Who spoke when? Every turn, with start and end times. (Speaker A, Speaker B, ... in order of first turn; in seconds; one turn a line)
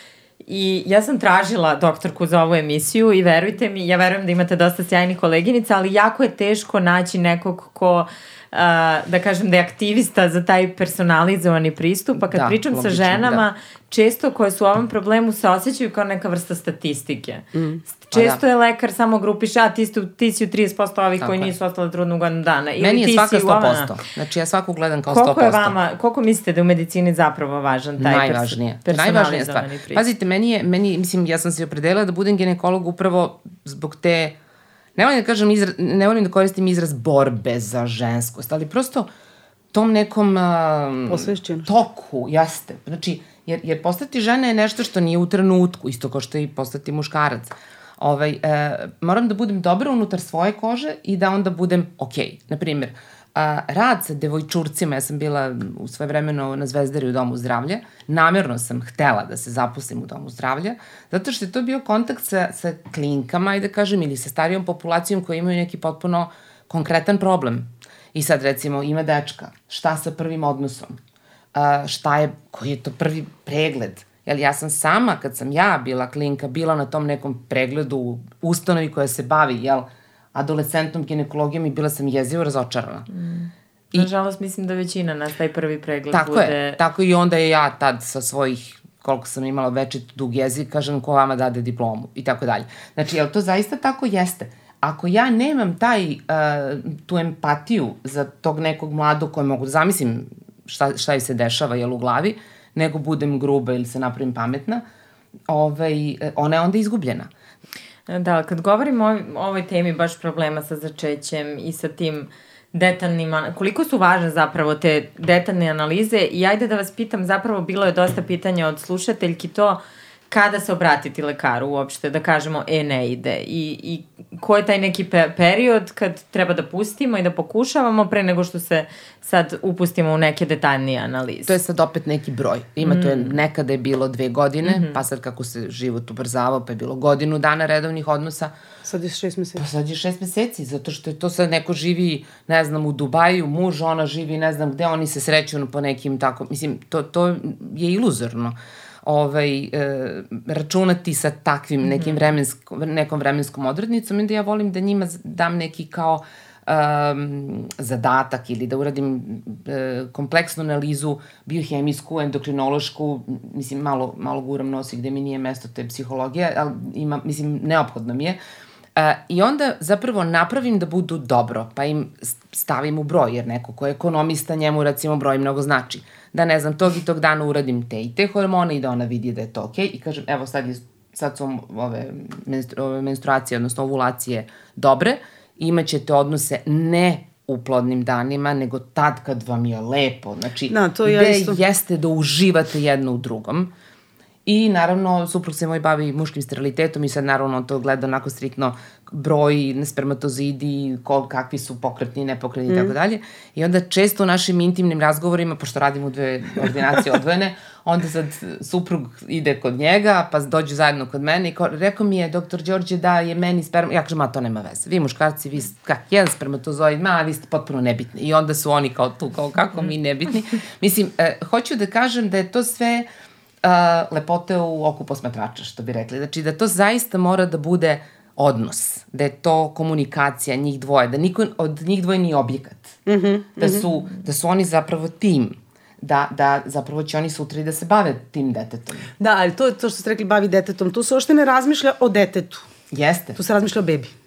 Speaker A: 0.5-23.9
Speaker B: 12.3-13.4
Speaker C: 17.5-17.8
Speaker B: 18.1-18.4
Speaker B: 21.2-21.5
Speaker B: 22.8-25.7
Speaker A: 25.1-30.0
Speaker B: 28.0-34.4
Speaker B: 35.0-39.1
Speaker B: 39.7-71.0
Speaker C: 41.1-41.7
Speaker B: 71.5-83.1
Speaker A: 83.1-86.8
Speaker B: 86.1-104.8
Speaker B: 105.5-107.3
Speaker A: 108.1-119.8
Speaker A: 120.3-131.6
Speaker B: 131.5-138.5
Speaker A: 132.8-133.3
Speaker A: 134.6-135.0
Speaker C: 138.8-139.6
Speaker B: 139.6-168.4
Speaker A: 151.8-152.2
Speaker B: 168.9-193.7
Speaker C: 190.7-191.6
Speaker B: 194.4-223.1
Speaker C: 202.7-202.9
Speaker B: 223.6-233.0
Speaker C: 233.1-233.8
Speaker B: 233.6-239.1
Speaker C: 239.2-242.7
Speaker B: 242.9-243.4
Speaker C: 243.3-244.1